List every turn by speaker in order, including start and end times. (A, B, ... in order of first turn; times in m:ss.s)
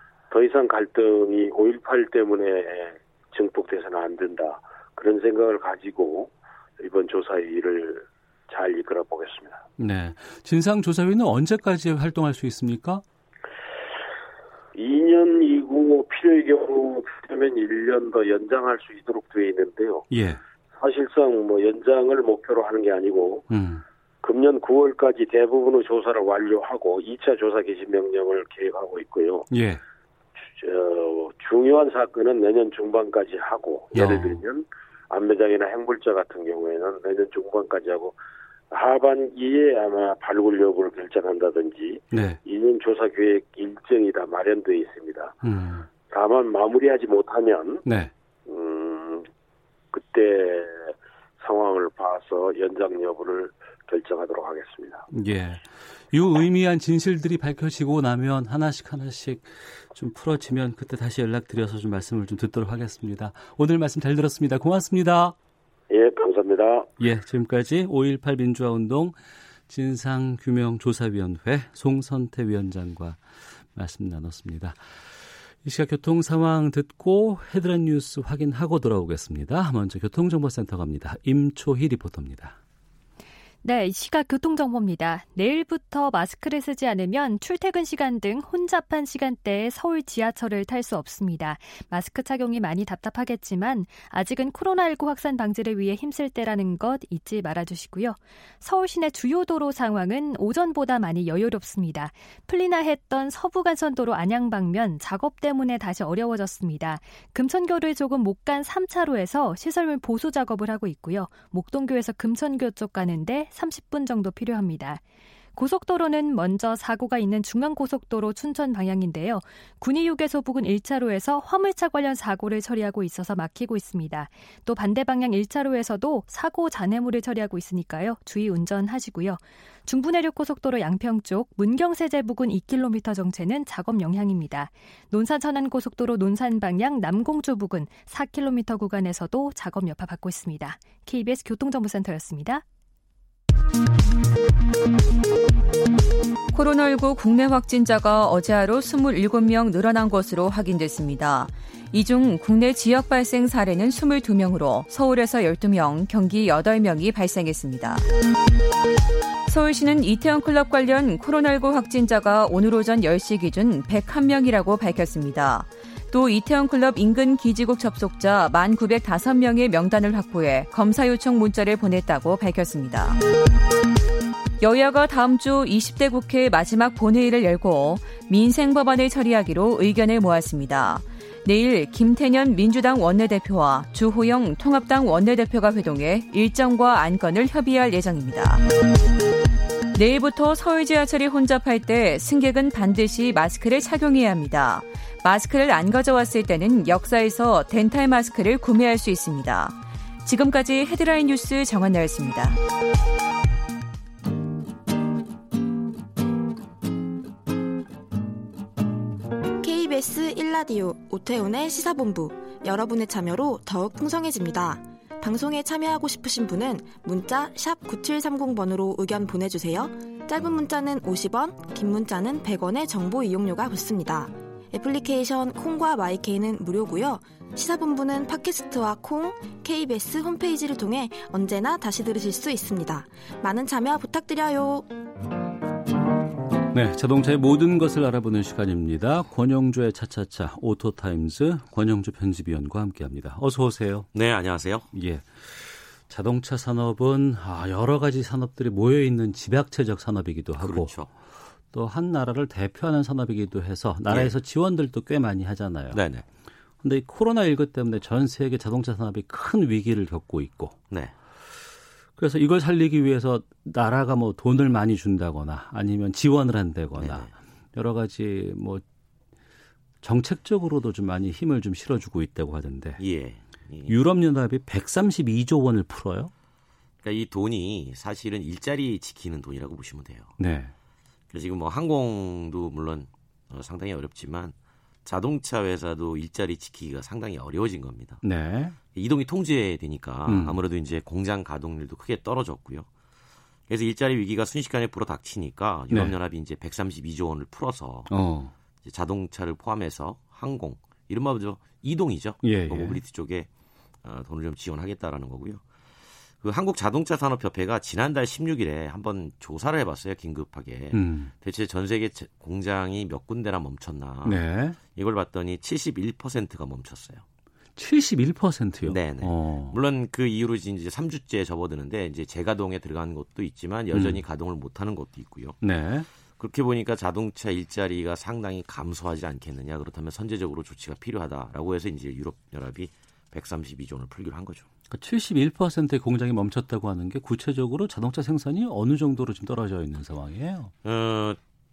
0:00.3-0:09.6 A
0:09.8-0:13.0 B
0:14.8-0:20.1 A
0:20.1-0:20.4 B
0:20.8-0:23.5 A
0:23.5-0:23.8 B
0:24.2-0:29.5 A
0:29.5-0:29.8 B
0:30.4-0:38.2 A
0:33.9-0:34.4 B
0:38.7-0:45.4 A
0:42.1-0:42.4 B
0:45.4-0:45.9 B
0:46.1-0:47.8 A
0:47.8-0:48.1 B
0:48.5-0:49.3 A
0:49.9-0:55.1 A
0:55.1-1:05.4 B
1:05.9-1:06.9 A
1:07.0-1:09.2 B
1:09.7-1:13.2 B
1:13.7-1:14.8 B
1:15.6-1:22.6 B
1:23.6-1:55.0 C
1:55.6-2:22.6 C
2:26.5-2:38.0 D
2:39.5-2:53.2 D
2:54.6-3:08.6 D
3:09.9-3:22.6 D
3:29.6-3:54.9 E
3:56.7-4:04.1 B
4:04.1-4:04.9 F
4:04.9-4:10.9 B
4:10.6-4:11.1 F
4:11.7-4:16.0 B
4:14.1-4:14.4 F
4:15.9-4:16.2 F
4:16.8-4:20.8 B
4:22.2-4:28.8 B
4:27.0-4:27.3 F
4:30.0-4:33.0 B
4:33.0-4:34.0 F
4:33.9-4:36.3 B
4:37.0-4:40.3 F
4:40.4-4:40.7 B
4:41.3-4:44.5 F
4:45.0-4:48.2 F
4:48.2-4:48.8 B
4:48.9-4:52.9 F
4:50.3-4:50.6 B
4:53.7-4:58.1 F
4:55.9-4:56.2 B
4:58.1-4:58.5 B
4:58.8-5:03.5 F
5:02.4-5:03.0 B
5:04.0-5:05.6 F
5:06.4-5:17.2 F
5:10.9-5:11.3 B
5:14.2-5:14.8 B
5:17.8-5:19.8 B
5:18.8-5:25.6 F
5:23.9-5:24.2 B
5:25.6-5:26.1 B
5:26.4-5:34.7 F
5:34.9-5:40.7 B
5:40.8-5:41.4 F